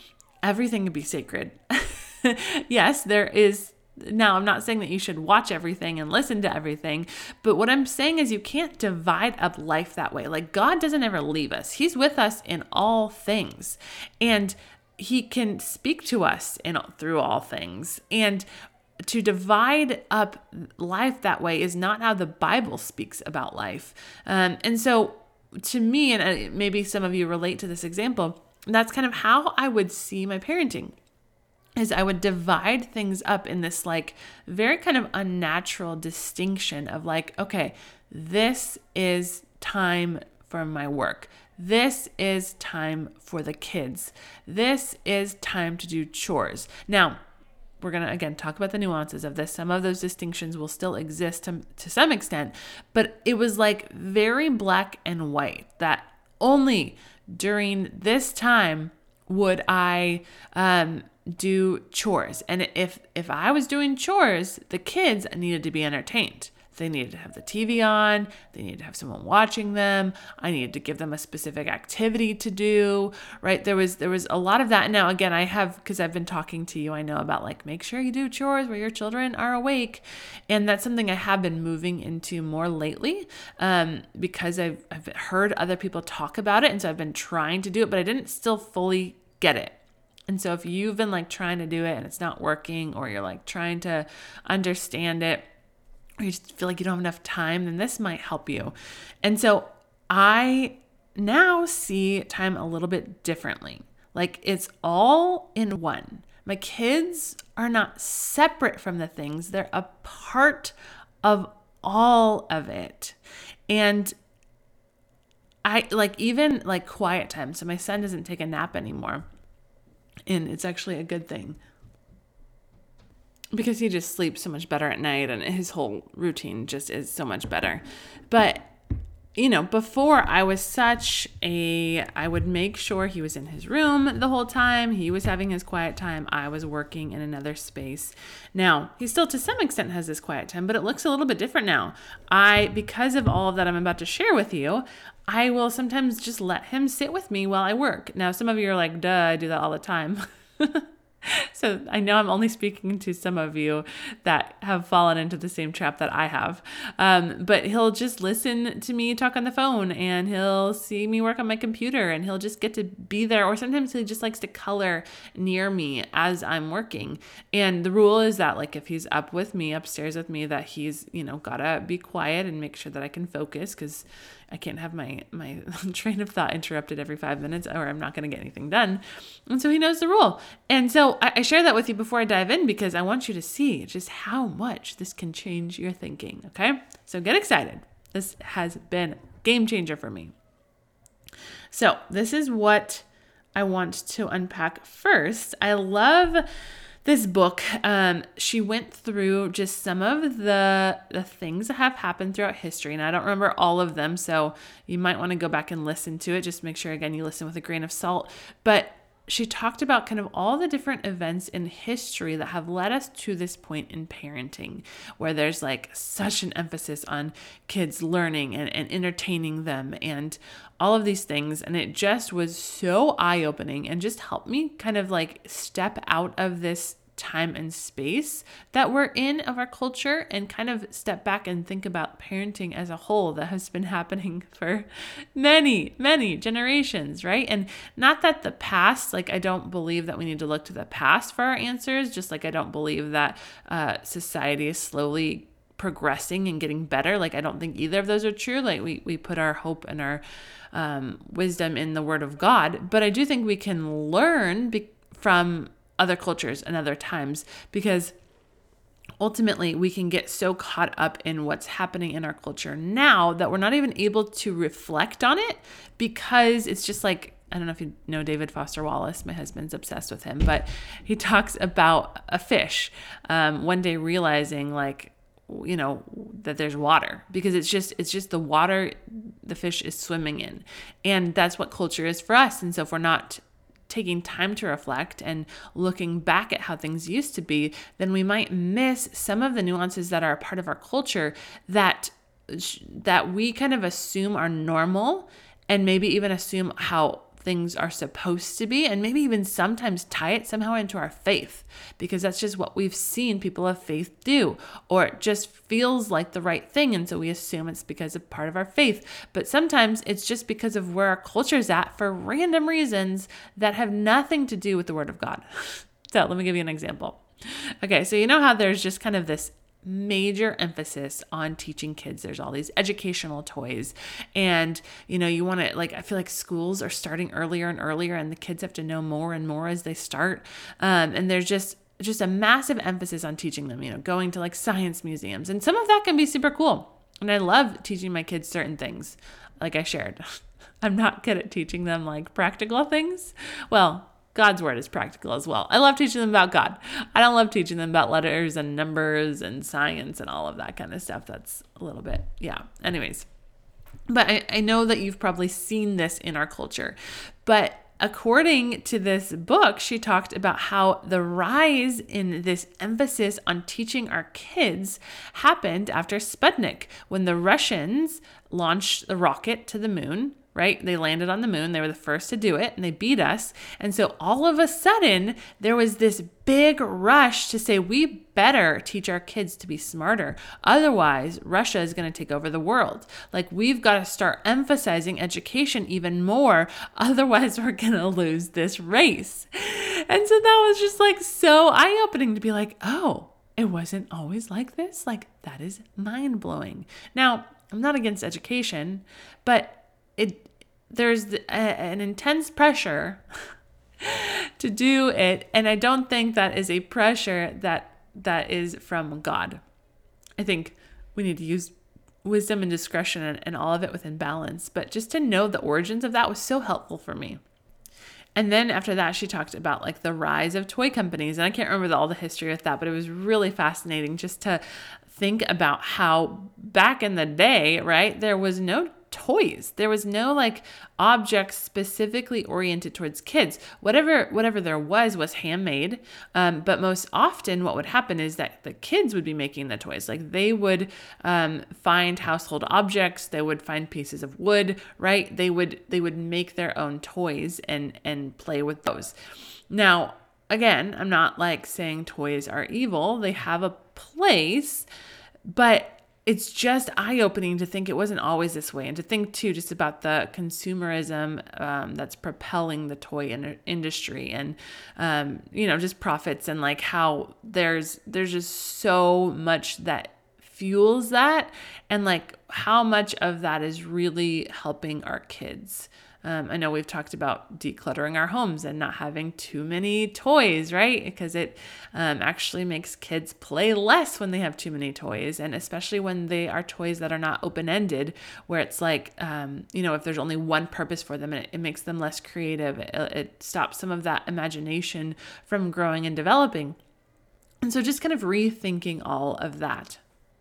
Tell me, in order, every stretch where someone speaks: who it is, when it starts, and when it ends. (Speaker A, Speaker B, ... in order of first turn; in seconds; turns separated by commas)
Speaker A: 0.4-18.5, Speaker A: 19.1-31.0, Speaker A: 31.8-47.2, Speaker A: 47.8-89.8, Speaker A: 90.3-95.5, Speaker A: 96.2-113.2, Speaker A: 113.7-114.2, Speaker A: 115.7-119.2, Speaker A: 120.3-121.6, Speaker A: 123.5-128.7, Speaker A: 129.4-190.3, Speaker A: 191.7-196.4, Speaker A: 197.1-250.2, Speaker A: 250.7-258.1, Speaker A: 259.2-340.2, Speaker A: 340.8-353.3, Speaker A: 354.1-403.2, Speaker A: 404.0-409.6, Speaker A: 410.4-417.4, Speaker A: 418.4-449.1, Speaker A: 449.7-454.9, Speaker A: 455.5-496.8, Speaker A: 497.6-500.0